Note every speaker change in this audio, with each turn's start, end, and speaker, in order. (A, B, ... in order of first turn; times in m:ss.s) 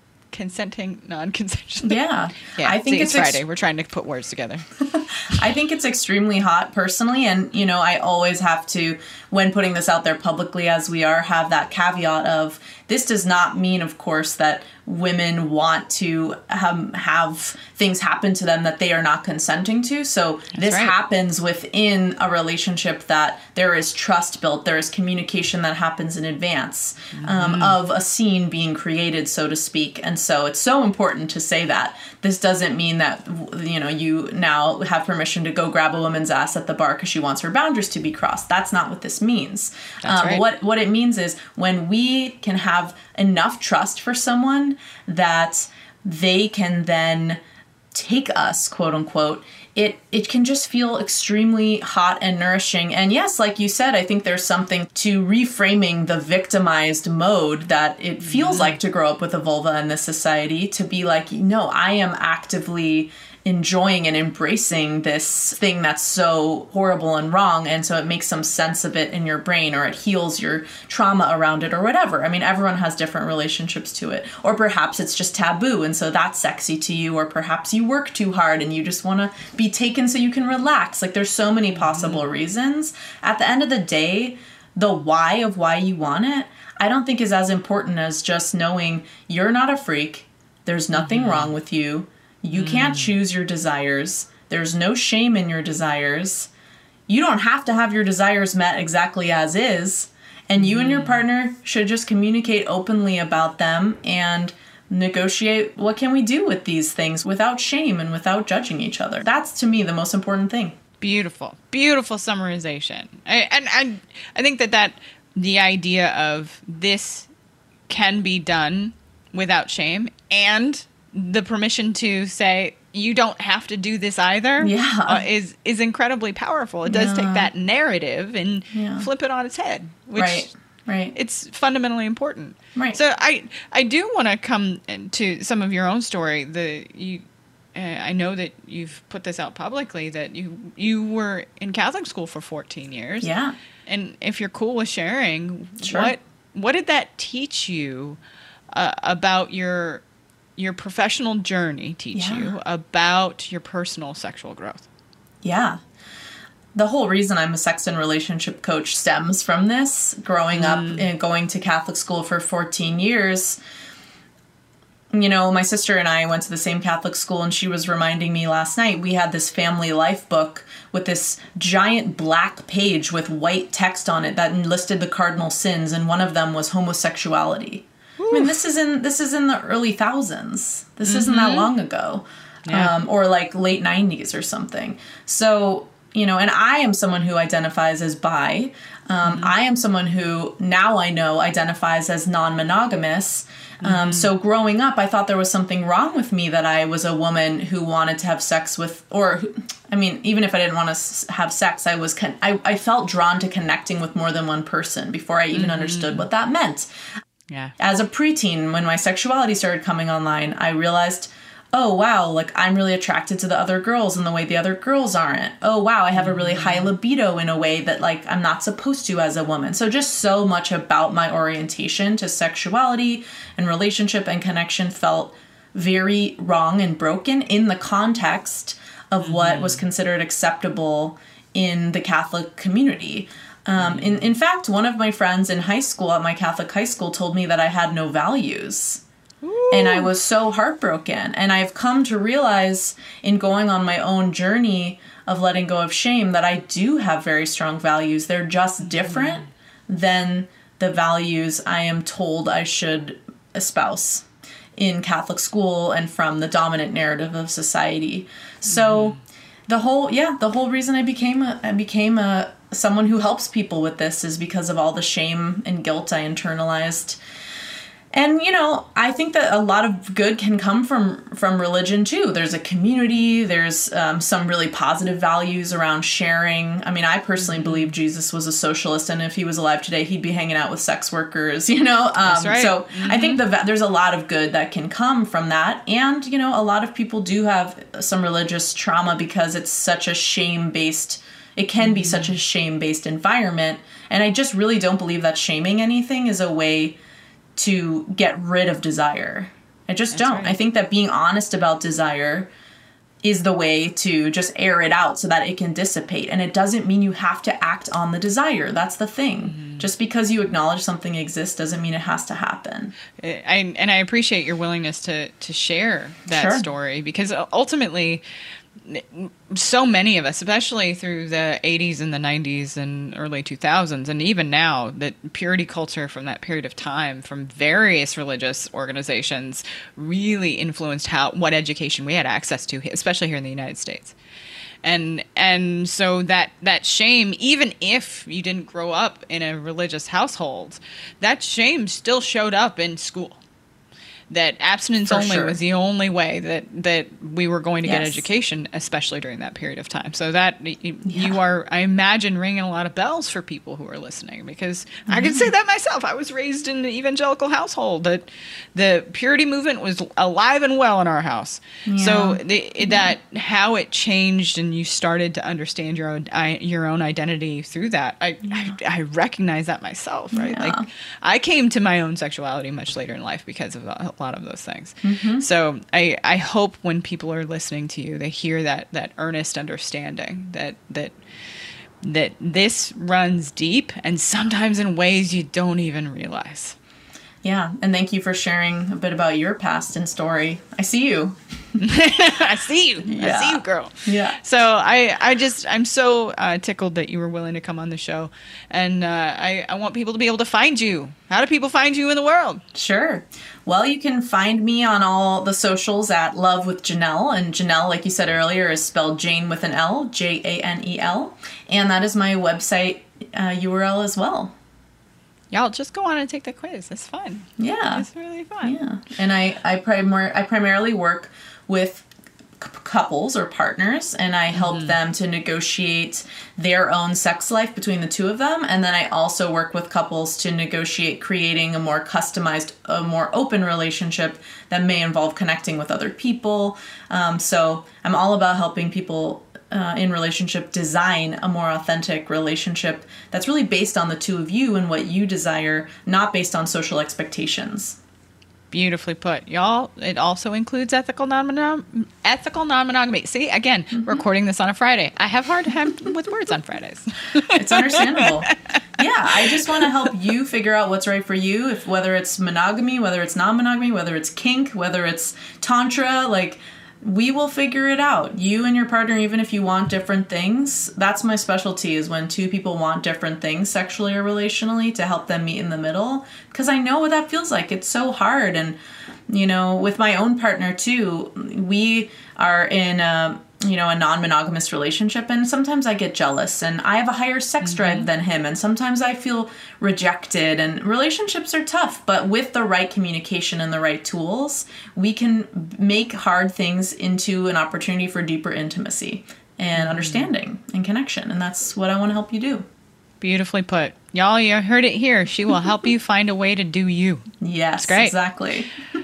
0:00.3-0:04.6 A
0:01.8-0:03.4 B
0:04.9-0:47.4 B
0:20.5-0:20.9 A
0:27.1-0:27.8 A
0:40.0-0:40.4 A
0:47.9-1:36.5 B
0:58.2-0:58.8 A
1:21.7-1:22.2 A
1:30.9-1:31.5 A
1:32.5-1:33.2 A
1:37.1-1:50.8 B
1:40.6-1:41.2 A
1:51.0-1:57.3 A
1:57.9-2:10.5 A
2:04.6-2:05.2 B
2:06.8-2:07.5 B
2:08.7-2:09.1 B
2:10.1-2:11.2 B
2:11.1-2:17.2 A
2:17.7-2:23.3 A
2:23.2-2:23.5 B
2:23.9-2:28.2 A
2:25.8-2:26.1 B
2:28.7-2:30.0 A
2:30.6-2:34.8 A
2:32.1-2:32.5 B
2:35.4-2:35.8 B
2:36.7-2:43.6 B
2:40.5-2:41.1 A
2:45.1-3:26.9 B
2:58.2-2:58.6 A
3:01.0-3:01.7 A
3:02.6-3:02.9 A
3:09.2-3:09.5 A
3:13.8-3:14.3 A
3:25.5-3:26.3 A
3:27.8-3:59.0 B
3:36.1-3:36.9 A
3:49.2-3:49.8 A
3:53.8-3:54.3 A
3:59.4-4:00.1 A
3:59.7-4:14.2 B
4:08.8-4:09.5 A
4:14.8-4:27.2 B
4:18.6-4:19.2 A
4:28.1-4:57.0 B
4:37.4-4:38.0 A
4:42.2-4:43.4 A
4:51.8-4:52.4 A
4:57.6-5:02.5 B
5:00.1-5:00.6 A
5:03.2-5:12.9 B
5:09.4-5:09.9 A
5:13.2-5:18.2 A
5:16.3-5:16.7 B
5:18.8-5:34.1 A
5:34.8-5:43.4 A
5:44.3-6:21.1 A
5:45.0-5:45.6 B
5:47.8-5:48.2 B
5:51.0-5:51.4 B
5:55.1-5:55.5 B
6:01.8-6:03.1 B
6:08.4-6:08.8 B
6:10.3-6:10.8 B
6:15.0-6:15.4 B
6:22.0-6:26.8 A
6:27.4-6:31.8 B
6:31.8-6:42.6 A
6:33.0-6:34.4 B
6:42.7-6:54.5 B
6:55.5-6:58.8 A
6:57.6-6:58.1 B
6:58.6-7:02.0 B
7:02.6-7:28.0 B
7:04.5-7:05.0 A
7:28.7-7:38.3 A
7:33.9-7:34.2 B
7:37.5-7:58.8 B
7:39.0-7:39.9 A
7:59.3-8:22.6 B
8:07.6-8:08.1 A
8:19.7-8:20.3 A
8:23.2-8:27.3 A
8:27.4-8:28.7 B
8:27.8-8:28.2 A